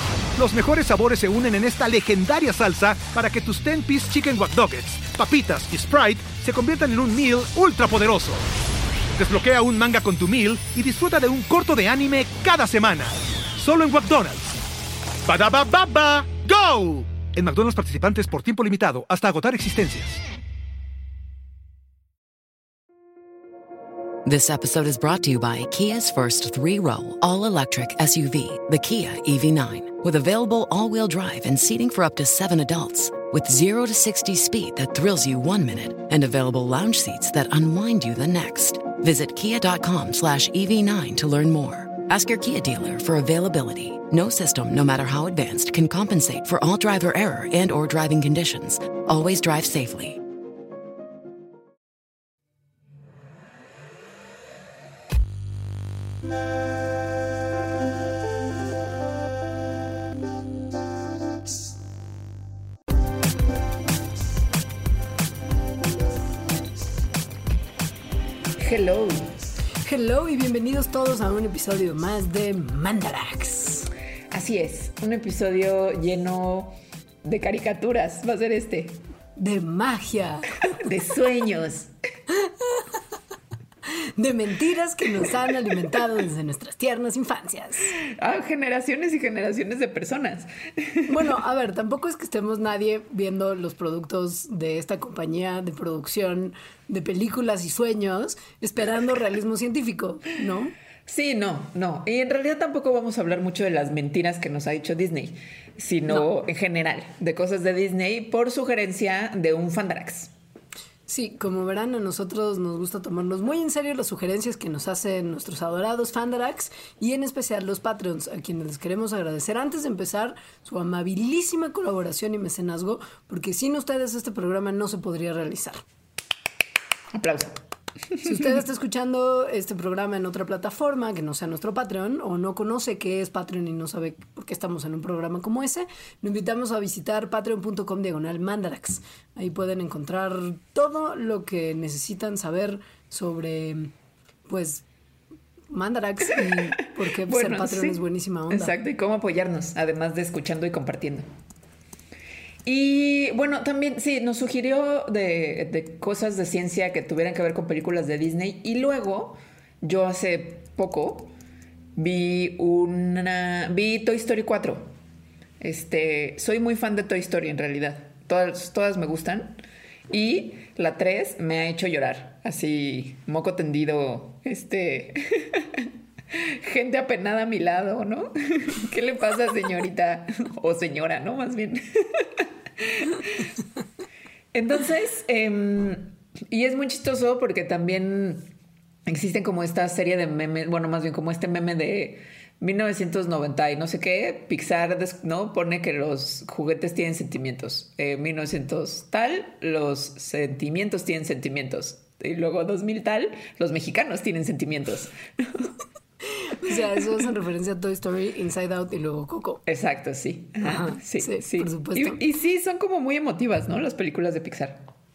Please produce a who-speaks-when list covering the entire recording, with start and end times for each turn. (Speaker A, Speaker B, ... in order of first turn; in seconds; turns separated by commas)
Speaker A: 0.4-8.4, Speaker A: 9.2-14.6, Speaker A: 15.3-20.2, Speaker B: 24.2-50.2, Speaker C: 68.6-69.3, Speaker D: 69.8-73.9, Speaker C: 74.3-79.0, Speaker D: 79.4-80.5, Speaker C: 80.8-81.9, Speaker D: 82.4-83.0, Speaker D: 84.2-88.0, Speaker C: 88.0-91.2, Speaker D: 91.1-100.7, Speaker C: 101.1-110.3, Speaker D: 111.1-125.8, Speaker C: 127.1-127.5, Speaker C: 128.2-128.6, Speaker D: 128.2-143.9, Speaker D: 144.5-144.8, Speaker D: 145.7-148.7, Speaker C: 147.2-151.3, Speaker C: 152.7-161.3, Speaker C: 162.0-164.9, Speaker C: 165.6-183.5, Speaker C: 184.5-188.5, Speaker C: 189.1-205.7, Speaker D: 206.3-209.6, Speaker C: 209.7-214.9, Speaker D: 210.6-212.2